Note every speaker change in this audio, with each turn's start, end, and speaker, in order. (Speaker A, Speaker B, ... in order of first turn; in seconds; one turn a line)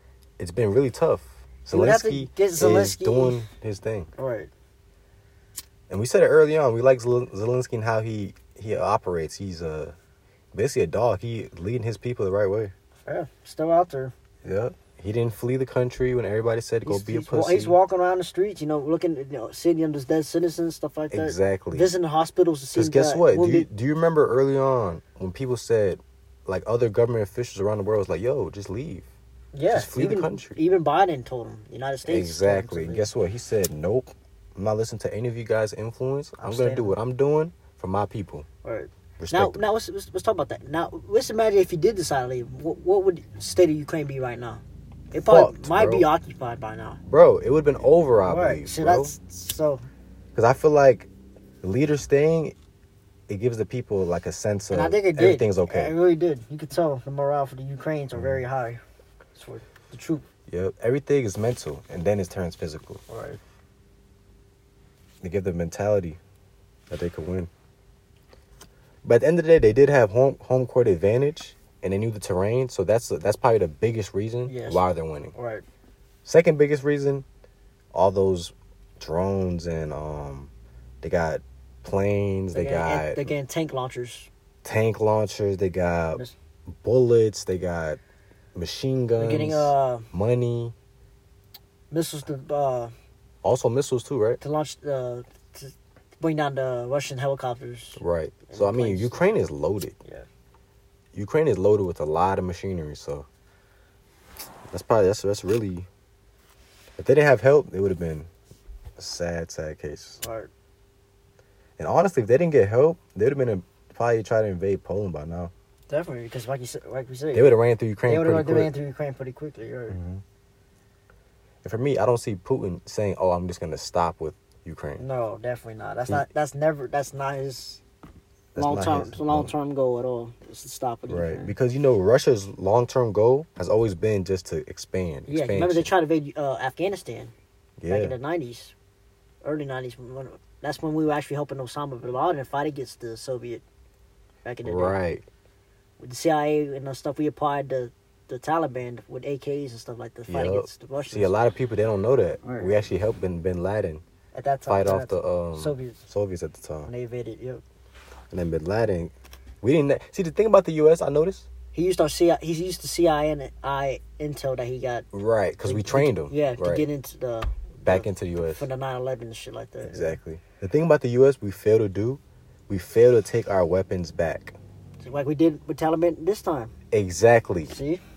Speaker A: 0.4-4.1
Speaker B: 1.7-3.5
Speaker B: 4.2-4.5
Speaker A: 5.9-9.9
Speaker A: 10.5-12.7
Speaker B: 13.1-14.1
Speaker A: 14.4-17.8
Speaker B: 16.9-23.7
Speaker A: 21.1-21.9
Speaker A: 22.7-29.1
Speaker B: 29.5-33.1
Speaker A: 29.7-30.6
Speaker A: 32.1-38.5
Speaker B: 36.4-37.0
Speaker B: 38.6-47.0
Speaker A: 39.2-39.6
Speaker A: 45.1-46.1
Speaker A: 47.1-49.1
Speaker B: 48.2-49.9
Speaker A: 50.4-51.1
Speaker A: 51.6-52.5
Speaker A: 53.3-56.0
Speaker B: 54.7-58.8
Speaker A: 58.1-58.4
Speaker B: 59.4-60.2
Speaker A: 60.5-63.0
Speaker B: 63.1-63.4
Speaker A: 65.2-66.2
Speaker A: 66.9-67.5
Speaker A: 69.0-75.3
Speaker B: 74.5-75.7
Speaker A: 76.2-77.2
Speaker A: 77.9-83.3
Speaker B: 82.5-84.3
Speaker A: 84.6-86.2
Speaker A: 86.8-88.0
Speaker A: 88.6-90.7
Speaker B: 89.2-90.1
Speaker B: 91.9-92.9
Speaker A: 93.4-94.4
Speaker B: 94.4-99.2
Speaker A: 98.0-100.0
Speaker A: 101.1-103.3
Speaker A: 104.7-105.9
Speaker A: 107.0-108.3
Speaker A: 109.0-110.2
Speaker B: 110.2-110.5
Speaker A: 111.8-115.5
Speaker B: 115.9-117.5
Speaker A: 117.3-118.8
Speaker B: 118.0-120.0
Speaker A: 119.9-120.2
Speaker A: 121.6-125.0
Speaker B: 125.0-127.8
Speaker A: 128.6-129.5
Speaker B: 128.6-131.5
Speaker A: 131.1-135.9
Speaker B: 135.3-137.3
Speaker A: 137.8-138.2
Speaker B: 137.9-138.7
Speaker B: 139.4-143.6
Speaker B: 144.4-145.0
Speaker A: 144.6-145.3
Speaker B: 146.0-151.4
Speaker A: 150.3-154.0
Speaker B: 152.4-152.9
Speaker B: 154.3-156.0
Speaker A: 154.7-156.9
Speaker B: 156.8-157.6
Speaker A: 158.3-161.5
Speaker B: 161.7-165.1
Speaker A: 165.1-166.9
Speaker B: 165.6-170.2
Speaker A: 167.8-168.7
Speaker A: 169.8-174.6
Speaker B: 175.0-176.7
Speaker A: 176.9-177.8
Speaker B: 177.7-178.0